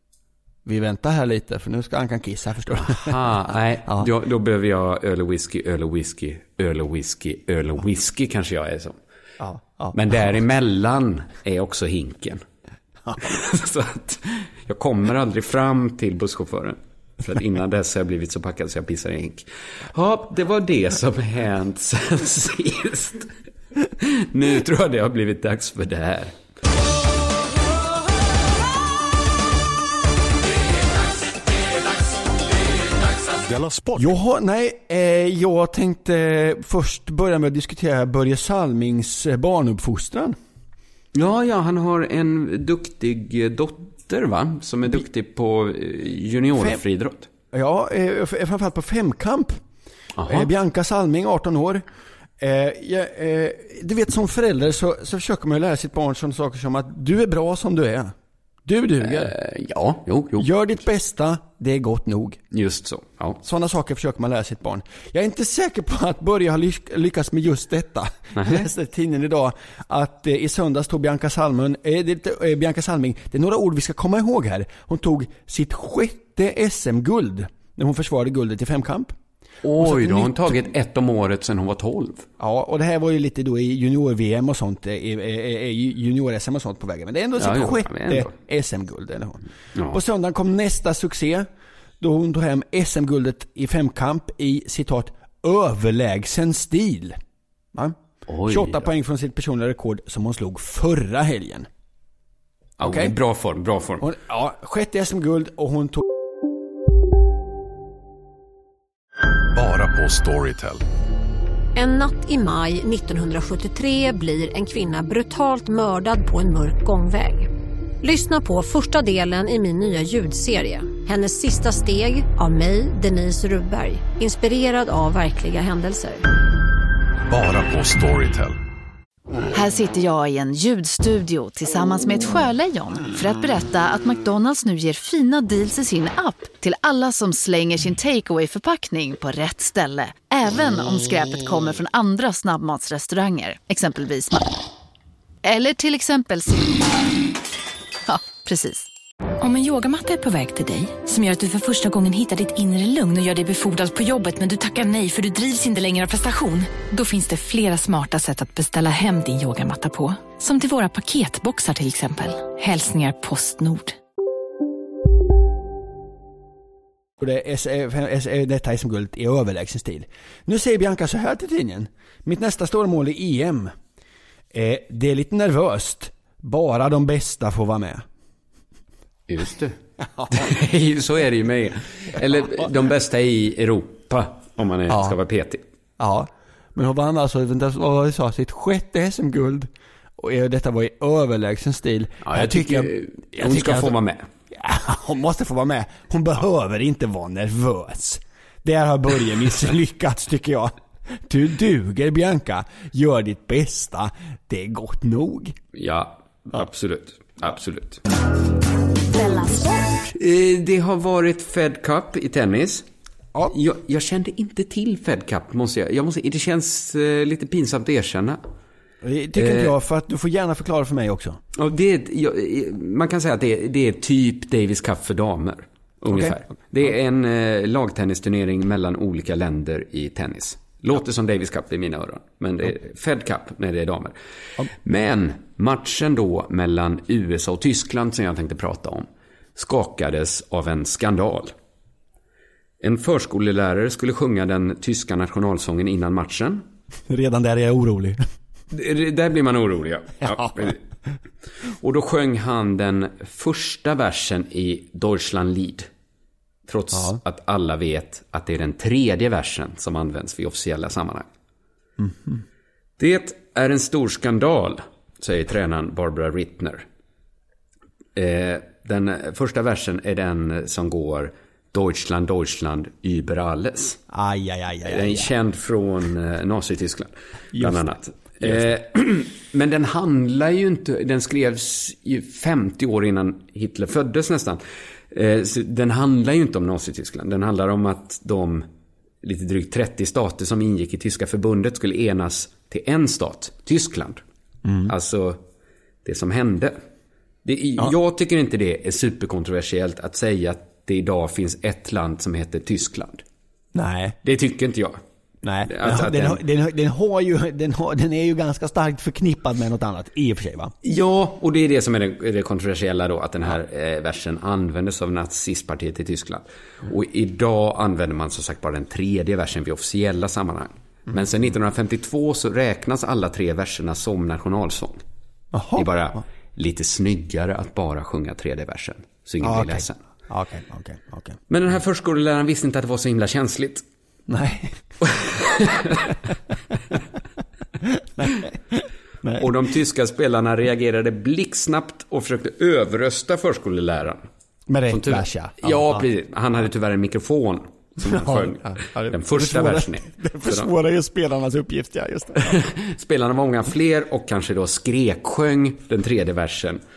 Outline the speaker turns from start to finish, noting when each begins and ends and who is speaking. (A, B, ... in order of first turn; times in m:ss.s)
0:00.7-0:03.2 A
0:02.8-0:09.0 B
0:09.4-0:10.0 A
0:09.9-0:12.4 B
0:13.2-0:23.3 B
0:24.0-0:26.3 B
0:33.6-0:33.8 C
0:34.0-0:40.4 A
0:41.1-0:47.3 B
0:47.5-0:49.6 A
0:50.2-0:50.5 B
0:50.3-0:51.8 A
0:52.4-0:58.1 A
0:58.7-0:59.3 A
0:59.0-1:00.5 B
1:00.4-1:02.4 A
1:02.5-1:03.4 B
1:03.4-1:19.1 A
1:08.4-1:08.7 B
1:19.6-1:22.3 B
1:19.8-1:20.6 A
1:22.4-1:31.5 A
1:27.4-1:28.3 B
1:29.8-1:30.0 B
1:32.0-1:37.2 A
1:37.7-1:41.7 A
1:38.3-1:38.8 B
1:42.8-1:44.1 B
1:42.8-1:43.1 A
1:44.0-1:46.0 A
1:49.5-1:50.8 C
1:51.8-1:57.5 D
1:58.0-2:06.2 D
2:07.3-2:08.6 C
2:09.5-2:24.5 E
2:25.4-2:26.9 E
2:28.1-2:28.9 E
2:29.4-2:44.0 F
2:47.2-2:53.7 A
2:54.5-2:58.1 A
2:59.3-2:59.8 B
3:00.2-3:00.5 A
3:00.3-3:05.6 B
3:04.9-3:05.2 A
3:06.0-3:14.0 A
3:12.2-3:14.3 B
3:14.5-3:20.7 A
3:21.3-3:25.6 A
3:25.7-3:28.0 B
3:30.1-3:32.9 B
3:33.5-3:38.4 B
3:39.0-3:41.4 A
3:39.4-3:39.7 B
3:41.5-3:54.1 B
3:46.1-3:46.4 A
3:54.8-4:01.5 B
4:02.8-4:06.7 B
4:07.1-4:08.2 A
4:08.7-4:10.8 B
4:10.3-4:10.7 A
4:11.8-4:15.9 B
4:16.7-4:21.3 B
4:22.0-4:22.4 A
4:23.0-4:26.8 B
4:28.2-4:34.0 B
4:34.1-4:35.3 A
4:34.9-4:48.7 B
4:37.5-4:37.8 A
4:49.2-4:54.2 B
4:54.6-4:54.9 A
4:54.9-4:55.4 B
4:56.0-4:56.8 B
4:57.4-5:03.2 B
5:03.7-5:04.2 A
5:04.2-5:05.0 B
5:05.4-5:10.7 A
5:05.7-5:06.4 B
5:10.8-5:25.0 B
5:25.5-5:26.2 A
5:25.8-5:30.0 B
5:29.4-5:31.4 A
5:31.5-5:33.8 B
5:34.3-5:34.8 A
5:35.0-5:36.1 B
5:38.2-5:39.5 A
5:39.4-5:44.2 B
5:44.7-5:46.0 A
5:44.9-5:50.7 B
5:48.0-5:52.6 A
5:52.4-5:56.8 B